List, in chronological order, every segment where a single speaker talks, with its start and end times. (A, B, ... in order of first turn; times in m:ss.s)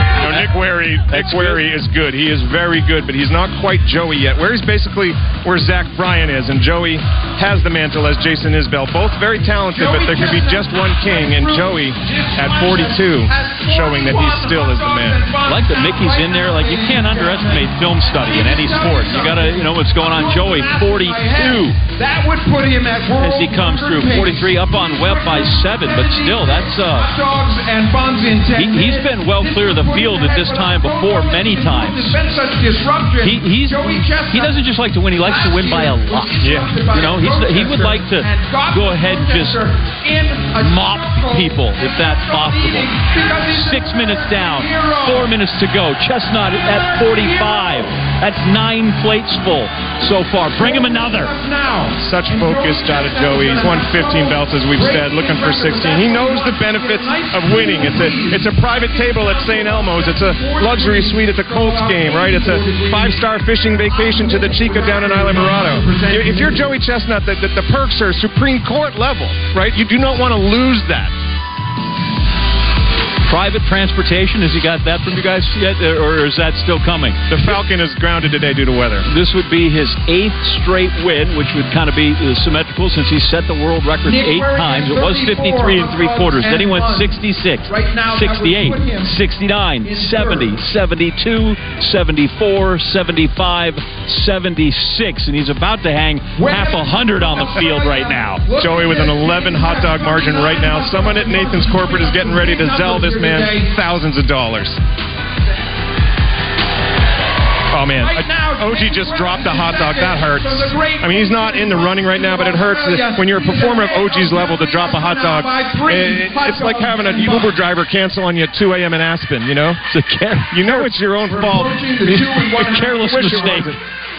0:00.2-0:15.2 A
0:01.1-0:01.6 B
0:09.7-0:34.6 C
0:15.4-0:21.8 B
0:23.2-0:27.1 B
0:28.6-0:32.2 B
0:33.2-0:39.6 B
0:35.2-0:45.3 C
0:36.4-0:36.7 A
0:40.5-0:51.3 B
0:46.5-0:47.9 C
0:50.6-1:03.3 C
0:52.0-1:11.1 A
1:03.9-1:06.7 C
1:13.2-1:17.2 B
1:17.3-1:19.1 A
1:19.1-1:38.4 B
1:24.0-1:29.2 C
1:29.8-1:30.6 C
1:36.4-1:43.7 C
1:38.6-1:44.8 A
1:47.7-1:59.8 A
1:48.0-1:57.6 C
1:59.9-2:00.5 B
2:00.5-2:01.8 A
2:00.6-2:03.7 C
2:02.1-2:03.8 B
2:03.2-2:03.7 A